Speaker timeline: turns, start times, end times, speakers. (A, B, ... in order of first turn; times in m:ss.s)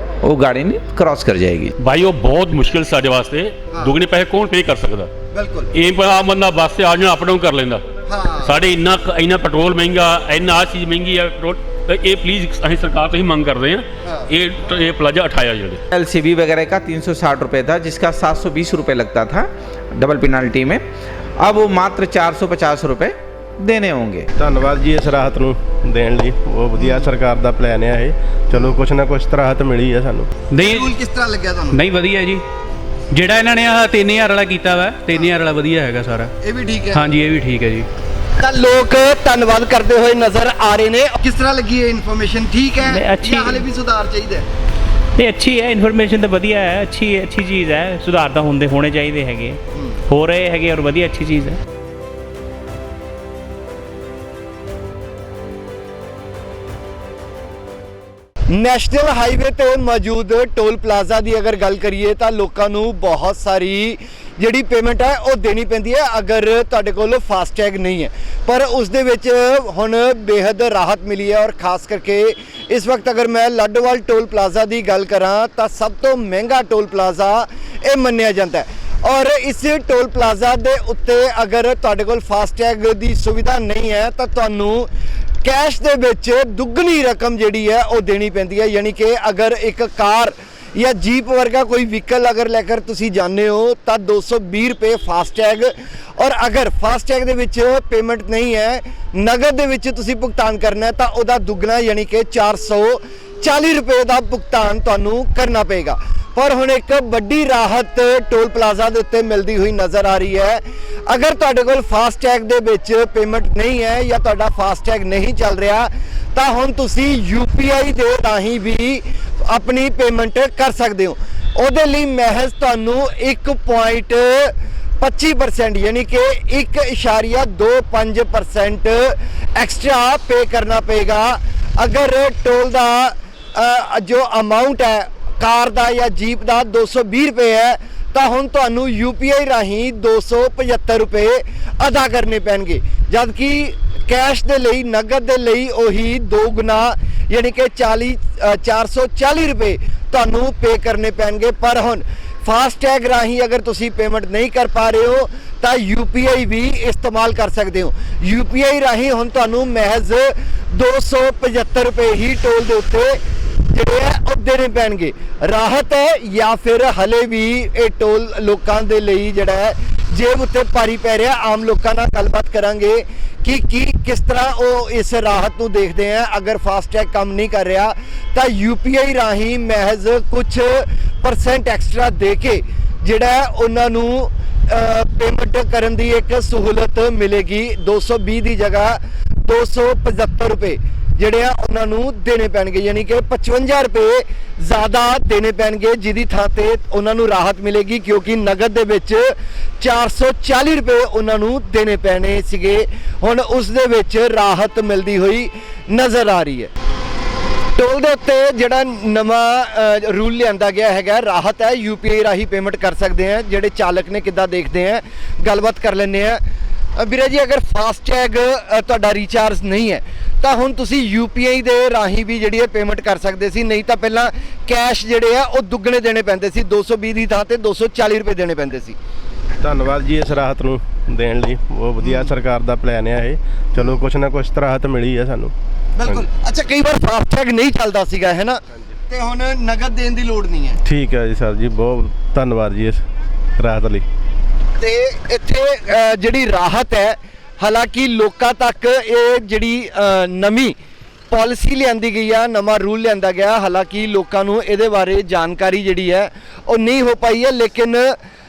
0:00.2-0:01.7 A
0:01.8-0:05.1 B
0:03.7-0:04.0 C
0:05.3-0:05.7 C
0:05.7-0:07.8 B
0:08.1-0:08.6 C
0:08.4-0:15.8 B
0:14.0-0:14.3 C
0:15.9-0:20.8 A
0:21.4-0:24.3 A
0:24.4-0:30.3 D
0:30.5-0:30.9 E
0:30.6-0:31.8 C
0:31.7-0:32.4 E
0:33.1-0:36.3 E
0:35.1-0:35.4 C
0:36.4-0:37.1 C
0:36.9-0:37.9 E
0:38.4-0:44.4 C
0:42.9-0:43.6 F
0:45.2-0:49.6 F
0:50.1-0:51.6 F
0:58.5-1:24.9 C
1:25.4-2:43.2 C
2:43.7-3:26.7 C
3:27.8-3:36.4 C
3:37.0-3:49.0 C
3:49.6-3:55.5 D
3:52.0-3:52.3 C
3:56.0-4:00.8 C
4:00.8-4:03.0 D
4:03.6-4:04.1 D
4:04.8-4:10.8 C
4:11.3-4:18.2 C